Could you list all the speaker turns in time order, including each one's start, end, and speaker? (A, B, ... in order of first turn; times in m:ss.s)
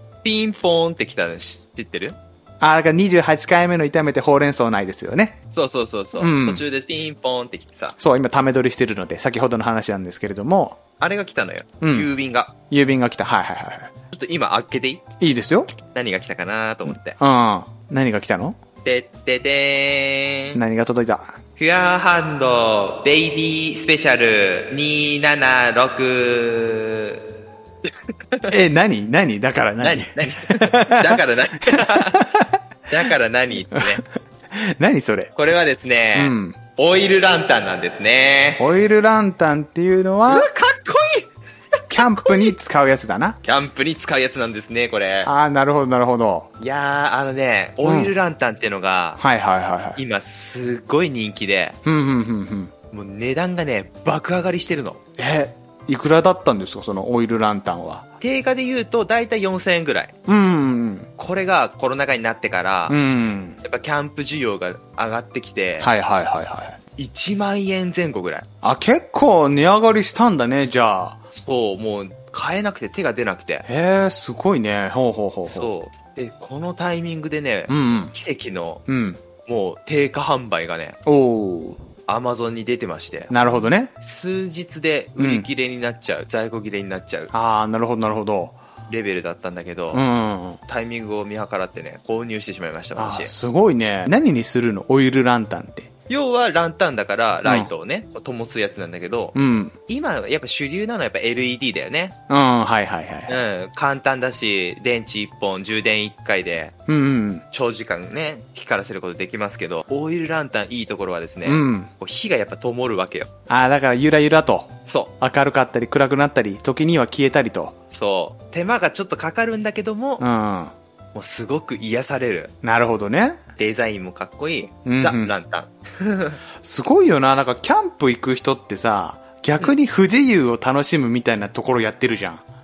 0:00.2-0:02.2 A
0:02.6-0:05.4 B
0:05.5-0:08.0 A
0:06.2-0:06.6 B
0:08.0-0:10.8 B
0:11.0-0:12.5 A
0:11.8-0:12.1 B
0:12.7-0:13.9 B
0:14.1-0:15.0 A
0:15.2-0:15.7 B
0:15.8-0:17.2 A
0:17.2-0:18.6 B
0:18.8-0:20.6 A
0:20.6-0:21.3 B
0:21.6-0:27.2 A
0:28.5-0:33.1 B
0:29.8-0:32.2 A
0:32.9-0:34.0 A
0:33.7-0:35.3 B
0:35.4-0:38.6 A
0:36.2-0:36.6 B
0:38.6-0:40.5 B
0:40.3-0:42.5 A
0:41.9-0:43.4 B
0:43.4-0:45.3 A
0:45.2-0:46.5 B
0:46.6-0:49.2 A
0:47.8-0:48.1 B
0:49.2-0:50.0 B
0:50.0-0:51.8 A
0:51.8-0:52.7 B
0:52.9-0:55.0 A
0:55.2-0:58.0 B
0:58.2-1:00.1 A
1:00.3-1:01.1 B
1:01.2-1:03.0 A
1:02.9-1:03.6 B
1:03.6-1:05.9 A
1:05.8-1:06.8 B
1:07.0-1:08.5 A
1:08.6-1:11.2 B
1:11.3-1:13.6 A
1:13.7-1:15.7 B
1:15.5-1:18.8 A
1:17.7-1:18.1 B
1:18.9-1:19.2 B
1:19.4-1:21.0 A
1:21.1-1:21.8 B
1:22.1-1:23.3 A
1:23.3-1:23.9 B
1:24.0-1:27.3 A
1:25.2-1:25.5 B
1:27.3-1:28.6 B
1:28.9-1:30.0 A
1:29.9-1:30.6 B
1:30.7-1:33.3 A
1:33.0-1:35.9 B
1:36.1-1:39.4 A
1:37.4-1:37.7 B
1:39.4-1:39.8 B
1:39.9-1:42.2 A
1:42.3-1:43.3 B
1:43.3-1:46.8 A
1:46.9-1:47.4 B
1:47.5-1:53.3 A
1:51.4-1:51.9 B
1:53.5-1:57.8 B
1:54.9-1:55.1 A
1:57.9-2:00.2 A
2:00.2-2:00.7 B
2:01.1-2:02.5 A
2:02.6-2:03.4 B
2:03.6-2:06.4 A
2:04.9-2:05.3 B
2:06.6-2:12.4 B